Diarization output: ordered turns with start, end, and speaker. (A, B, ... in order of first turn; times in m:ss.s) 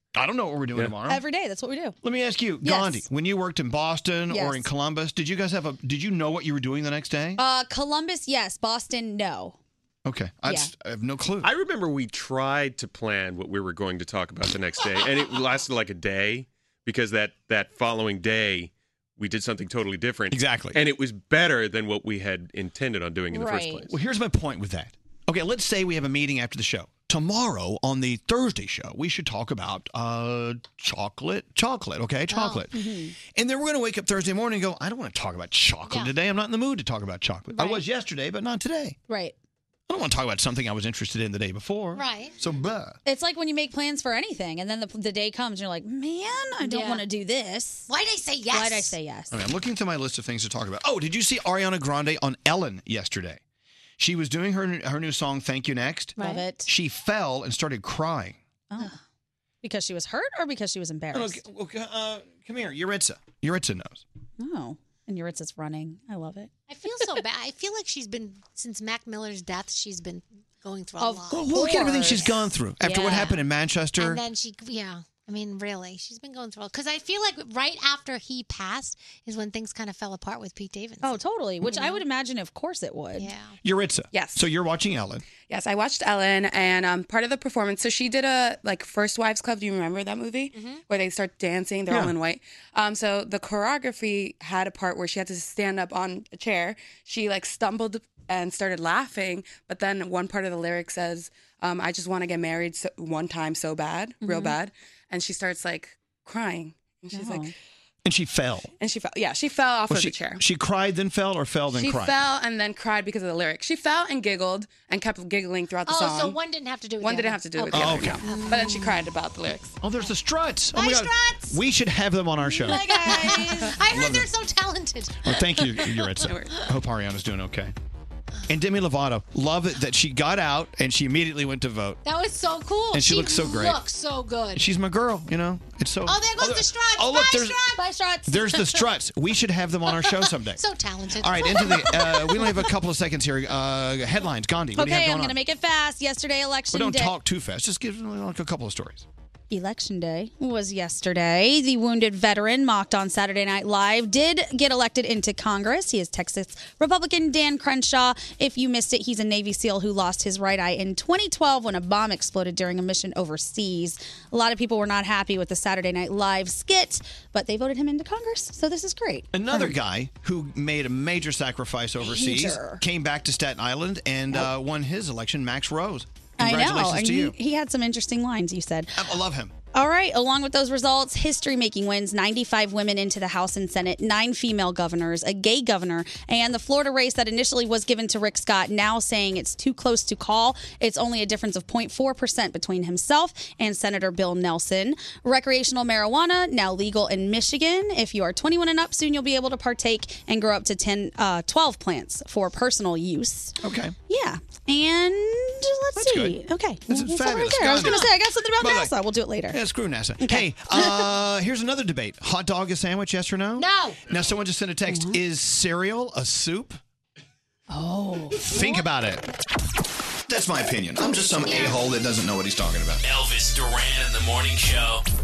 0:00.1-0:01.2 A
0:01.0-0:02.0 B
0:02.0-0:07.4 A
0:02.6-0:03.0 B
0:04.3-0:04.7 B
0:07.4-0:09.6 B
0:10.0-0:11.5 A
0:11.4-0:23.9 C
0:20.3-0:20.8 A
0:23.3-0:23.9 B
0:23.9-0:32.7 A
0:32.3-0:32.6 D
0:32.7-0:33.2 B
0:33.3-0:39.0 A
0:35.9-0:36.1 D
0:37.6-0:37.8 B
0:39.1-0:39.3 B
0:39.9-0:43.0 A
0:41.9-0:42.3 D
0:43.0-0:47.9 B
0:46.6-0:47.0 D
0:47.9-0:49.0 D
0:48.5-0:49.4 B
0:49.3-0:53.4 A
0:54.0-0:58.4 A
0:56.2-0:56.5 D
0:56.2-0:56.7 B
0:59.6-1:01.4 B
1:01.1-1:04.0 A
1:04.4-1:06.5 B
1:06.7-1:12.4 D
1:11.0-1:13.3 B
1:11.3-1:14.2 A
1:13.0-1:13.4 D
1:14.0-1:22.0 D
1:21.0-1:23.3 B
1:23.2-1:23.6 D
1:23.6-1:25.2 A
1:24.1-1:24.5 E
1:25.5-1:47.5 E
1:30.5-1:30.8 D
1:44.2-1:44.6 B
1:47.1-1:47.5 B
1:48.0-1:48.7 A
1:48.8-1:50.4 E
1:49.9-1:52.2 A
1:51.7-1:56.4 E
1:55.8-1:59.0 D
1:57.0-1:59.8 E
1:57.7-1:58.2 A
1:59.8-2:04.3 A
2:00.7-2:01.6 D
2:02.5-2:06.6 D
2:02.7-2:03.7 B
2:05.2-2:07.7 A
2:06.3-2:06.6 E
2:08.5-2:12.0 A
2:12.0-2:14.7 D
2:12.9-2:13.8 A
2:14.5-2:17.6 A
2:16.0-2:17.8 D
2:17.8-2:18.6 B
2:18.3-2:20.6 A
2:19.9-2:22.7 D
2:21.2-2:25.4 A
2:24.7-2:27.1 B
2:26.7-2:29.0 A
2:29.5-2:49.7 B
2:49.3-2:57.3 A
2:52.0-2:52.8 B
2:56.4-2:59.0 B
2:59.0-2:59.5 A
2:59.7-3:23.5 B
3:23.6-3:23.9 A
3:24.1-3:29.6 B
3:25.9-3:28.9 A
3:27.7-3:28.1 D
3:29.5-3:36.8 A
3:30.2-3:31.1 B
3:33.6-3:34.0 D
3:37.7-3:38.8 B
3:38.4-3:39.2 A
3:40.3-3:43.0 A
3:41.4-3:41.8 D
3:43.0-3:45.0 F